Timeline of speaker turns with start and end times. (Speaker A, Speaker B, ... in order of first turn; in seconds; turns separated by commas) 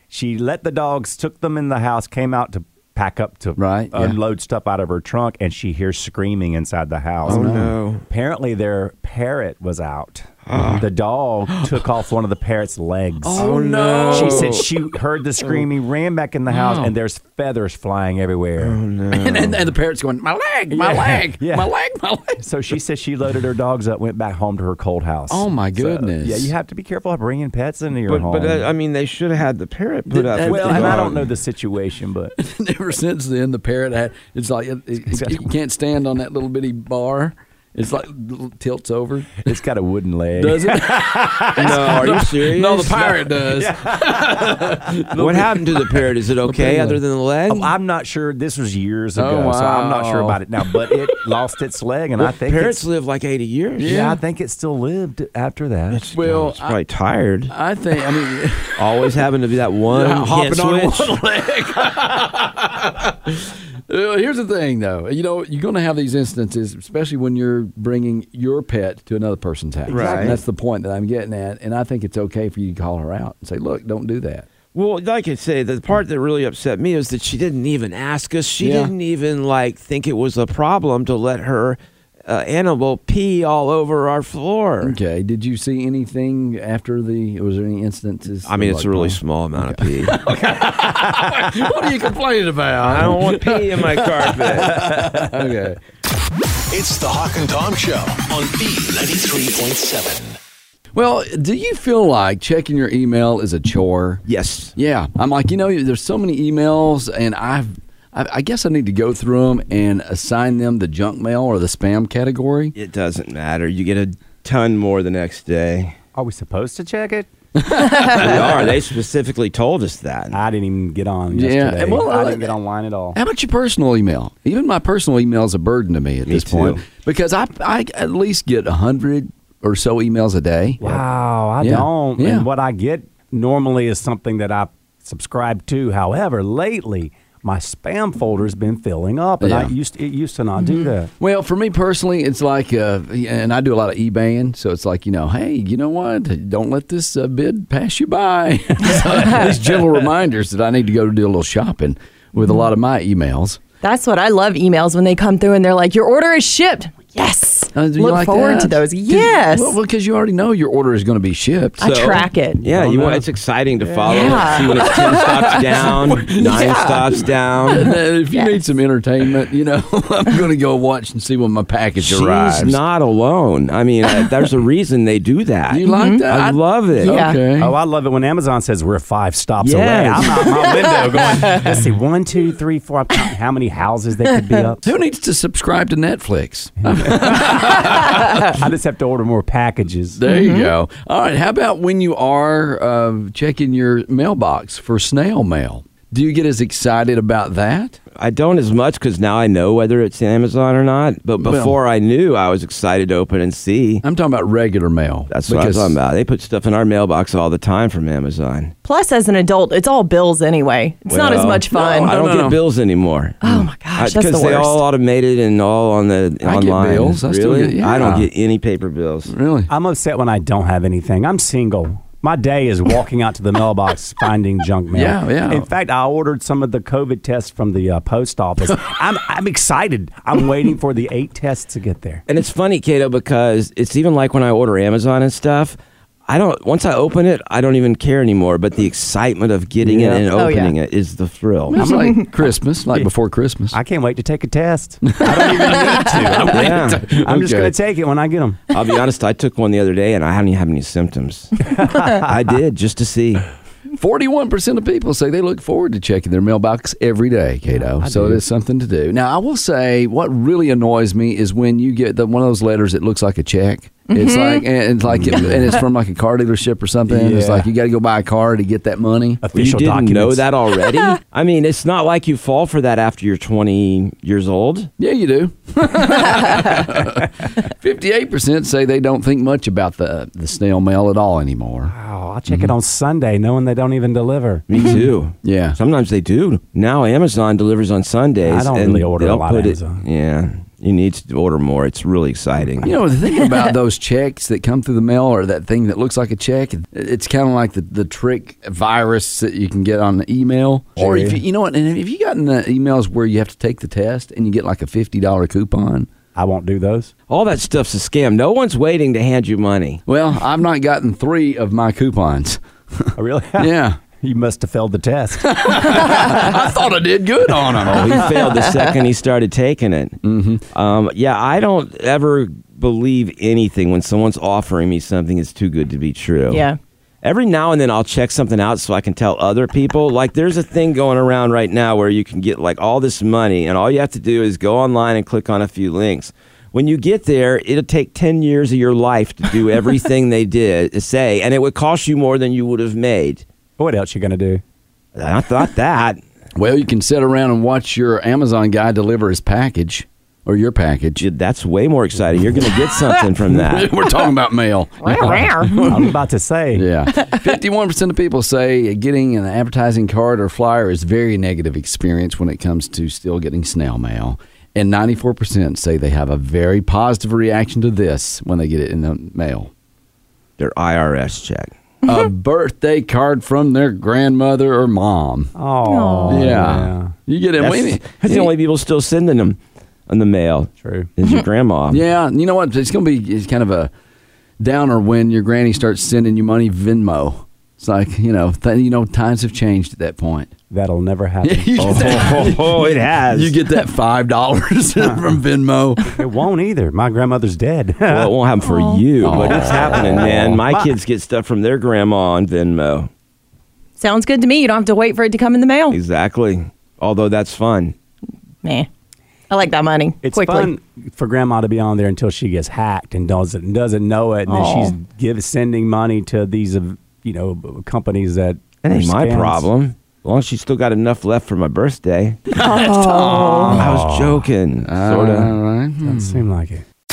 Speaker A: 0.1-7.5, Speaker B: 3.6-4.2, Speaker B: 7.2-7.7, Speaker C: 7.3-8.0, Speaker A: 8.1-13.5, Speaker C: 10.4-10.8, Speaker B: 10.5-10.8, Speaker B: 11.5-11.8, Speaker B: 13.2-14.7, Speaker C: 13.3-14.7, Speaker A: 14.1-18.8, Speaker B: 16.5-16.9, Speaker C: 18.6-19.6, Speaker B: 19.1-22.4, Speaker A: 20.7-21.7, Speaker A: 22.4-28.7, Speaker B: 25.3-26.5, Speaker C: 28.1-31.2, Speaker B: 30.1-31.2, Speaker A: 30.4-32.3, Speaker B: 32.4-39.5, Speaker A: 35.0-35.5, Speaker A: 39.4-42.2, Speaker B: 40.4-47.0, Speaker C: 41.6-43.2, Speaker A: 43.4-45.5, Speaker C: 45.1-47.7, Speaker A: 47.5-52.8, Speaker B: 49.1-51.1, Speaker C: 52.2-54.0, Speaker B: 53.8-54.2, Speaker A: 53.8-56.3, Speaker C: 55.9-57.5, Speaker B: 56.1-56.8, Speaker B: 57.5-59.1, Speaker C: 58.8-61.2, Speaker B: 59.9-74.5, Speaker A: 69.8-70.4, Speaker C: 69.9-70.4, Speaker C: 74.7-85.0, Speaker B: 78.6-78.9, Speaker B: 84.8-95.8, Speaker C: 88.4-90.2, Speaker C: 92.8-94.8, Speaker A: 94.7-95.4, Speaker D: 96.7-100.4, Speaker B: 100.9-104.2, Speaker C: 104.2-104.7, Speaker B: 104.8-112.7, Speaker C: 112.7-115.9, Speaker A: 116.1-117.3, Speaker B: 117.5-118.7, Speaker C: 118.1-120.4, Speaker A: 120.3-123.2, Speaker B: 121.3-122.5, Speaker B: 123.1-131.0, Speaker C: 126.3-126.8, Speaker A: 130.8-141.1, Speaker B: 131.6-132.5, Speaker B: 139.4-139.7, Speaker E: 140.6-140.9, Speaker B: 141.2-153.6, Speaker E: 153.8-159.8, Speaker B: 157.7-161.8, Speaker E: 161.8-162.6, Speaker C: 161.8-167.9, Speaker B: 162.7-163.2, Speaker A: 163.8-164.4, Speaker E: 164.1-165.5, Speaker B: 164.8-172.8, Speaker E: 166.3-167.1, Speaker E: 168.3-168.6, Speaker C: 172.0-177.2, Speaker B: 175.7-177.7, Speaker E: 175.8-176.2, Speaker E: 177.0-177.4, Speaker A: 177.6-184.9, Speaker C: 179.6-180.4, Speaker E: 180.6-181.4, Speaker B: 184.8-188.5, Speaker A: 186.8-190.2, Speaker B: 190.2-198.0, Speaker E: 190.3-190.7, Speaker C: 198.2-204.0, Speaker B: 201.4-201.8, Speaker B: 204.0-206.0, Speaker C: 205.3-208.7, Speaker E: 208.8-212.1, Speaker C: 211.1-219.3, Speaker B: 211.7-212.6, Speaker E: 213.4-214.8, Speaker B: 216.4-218.3, Speaker B: 219.3-219.7, Speaker A: 219.7-232.2, Speaker B: 224.9-225.7, Speaker C: 232.3-235.8, Speaker C: 236.3-241.8, Speaker A: 239.8-240.3, Speaker E: 240.3-240.7, Speaker B: 241.7-243.8, Speaker A: 241.8-242.3, Speaker E: 241.9-242.2, Speaker A: 243.7-248.6, Speaker B: 245.1-247.7, Speaker C: 246.5-247.0, Speaker C: 248.7-253.4, Speaker A: 251.7-252.3, Speaker B: 254.0-269.4, Speaker A: 257.7-258.4, Speaker E: 264.1-264.6, Speaker A: 265.1-265.8, Speaker A: 267.1-267.7, Speaker A: 269.4-270.5, Speaker C: 269.5-274.9, Speaker B: 275.0-281.9, Speaker A: 281.9-284.6, Speaker C: 284.7-292.9, Speaker B: 284.9-285.8, Speaker A: 288.4-290.0, Speaker B: 292.8-306.1, Speaker A: 300.9-301.4, Speaker A: 306.3-307.1, Speaker C: 307.3-310.0, Speaker B: 310.1-314.0, Speaker A: 313.1-316.2, Speaker B: 315.4-318.4, Speaker C: 317.9-320.2, Speaker B: 320.2-320.6, Speaker C: 320.7-326.6, Speaker E: 326.5-326.8, Speaker C: 327.2-343.4, Speaker A: 343.8-344.6, Speaker C: 345.1-346.2, Speaker B: 346.6-351.2, Speaker C: 351.2-353.9, Speaker B: 352.6-356.1, Speaker E: 355.0-356.0, Speaker A: 355.8-356.9, Speaker B: 356.7-369.7, Speaker C: 370.6-371.7, Speaker B: 372.1-375.5, Speaker A: 375.5-377.1, Speaker E: 375.8-376.5, Speaker B: 376.3-378.5, Speaker C: 377.6-382.0, Speaker A: 380.8-381.1, Speaker B: 381.9-383.9, Speaker B: 384.6-390.5, Speaker A: 390.7-392.5, Speaker B: 391.4-396.1, Speaker C: 391.8-393.6, Speaker A: 395.0-395.3, Speaker A: 396.0-398.4, Speaker C: 398.1-403.1, Speaker E: 398.6-399.1, Speaker B: 399.2-400.2, Speaker A: 399.3-400.9, Speaker E: 404.0-406.0, Speaker C: 405.9-407.9, Speaker E: 409.5-410.7, Speaker A: 410.2-419.6, Speaker E: 414.5-414.9, Speaker C: 418.8-422.4, Speaker E: 422.5-423.7, Speaker B: 422.6-423.9, Speaker A: 423.3-424.5, Speaker C: 423.7-425.5, Speaker B: 424.8-426.4, Speaker A: 426.0-426.8